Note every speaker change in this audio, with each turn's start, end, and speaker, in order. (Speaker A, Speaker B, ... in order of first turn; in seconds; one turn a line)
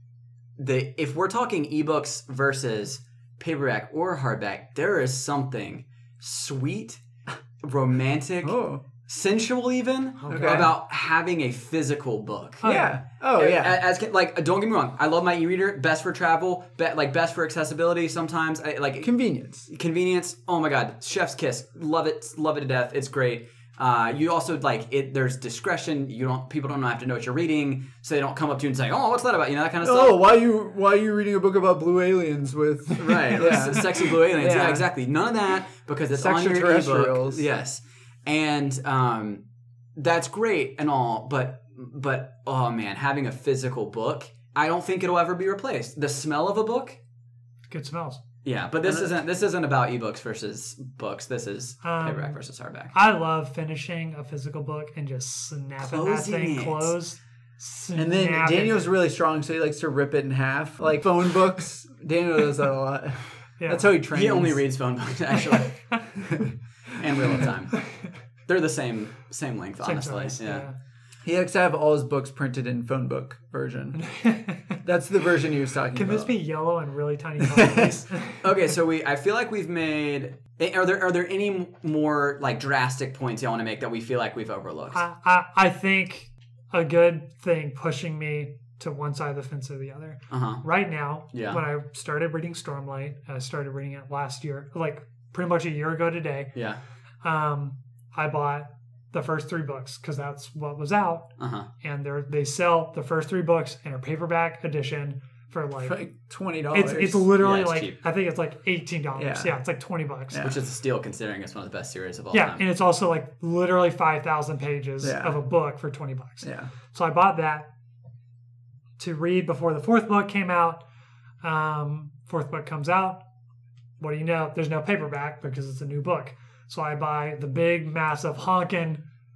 Speaker A: 0.6-7.0
Speaker A: 7.6-12.7
Speaker B: 8.4-8.8
Speaker C: 10.2-10.7
Speaker B: 10.3-10.7
Speaker C: 12.6-13.0
Speaker B: 12.6-13.8
Speaker A: 13.4-19.1
Speaker B: 19.0-19.7
Speaker A: 19.6-30.2
Speaker B: 29.8-34.9
Speaker A: 32.9-39.4
Speaker B: 36.1-37.4
Speaker A: 40.0-47.0
Speaker C: 47.7-48.2
Speaker A: 48.4-52.9
Speaker B: 48.8-49.1
Speaker C: 51.8-52.4
Speaker C: 52.9-58.9
Speaker A: 55.8-56.9
Speaker B: 58.0-64.6
Speaker C: 63.6-63.9
Speaker A: 64.1-65.7
Speaker B: 66.2-66.5
Speaker A: 66.9-67.8
Speaker A: 68.5-70.7
Speaker C: 69.8-70.7
Speaker B: 71.2-74.0
Speaker C: 73.9-74.8
Speaker B: 74.8-76.3
Speaker C: 75.9-78.5
Speaker B: 77.4-78.0
Speaker A: 78.4-85.0
Speaker C: 84.9-96.5
Speaker A: 90.3-90.6
Speaker A: 91.3-91.6
Speaker A: 96.5-96.8
Speaker C: 97.2-101.3
Speaker A: 101.4-101.7
Speaker C: 101.8-106.0
Speaker B: 105.8-107.3
Speaker C: 106.7-110.4
Speaker A: 107.4-108.0
Speaker B: 109.2-109.5
Speaker B: 110.3-110.6
Speaker A: 110.4-112.6
Speaker C: 112.3-117.7
Speaker B: 115.0-115.4
Speaker B: 116.4-116.7
Speaker C: 119.0-120.8
Speaker C: 121.4-123.2
Speaker C: 124.0-129.0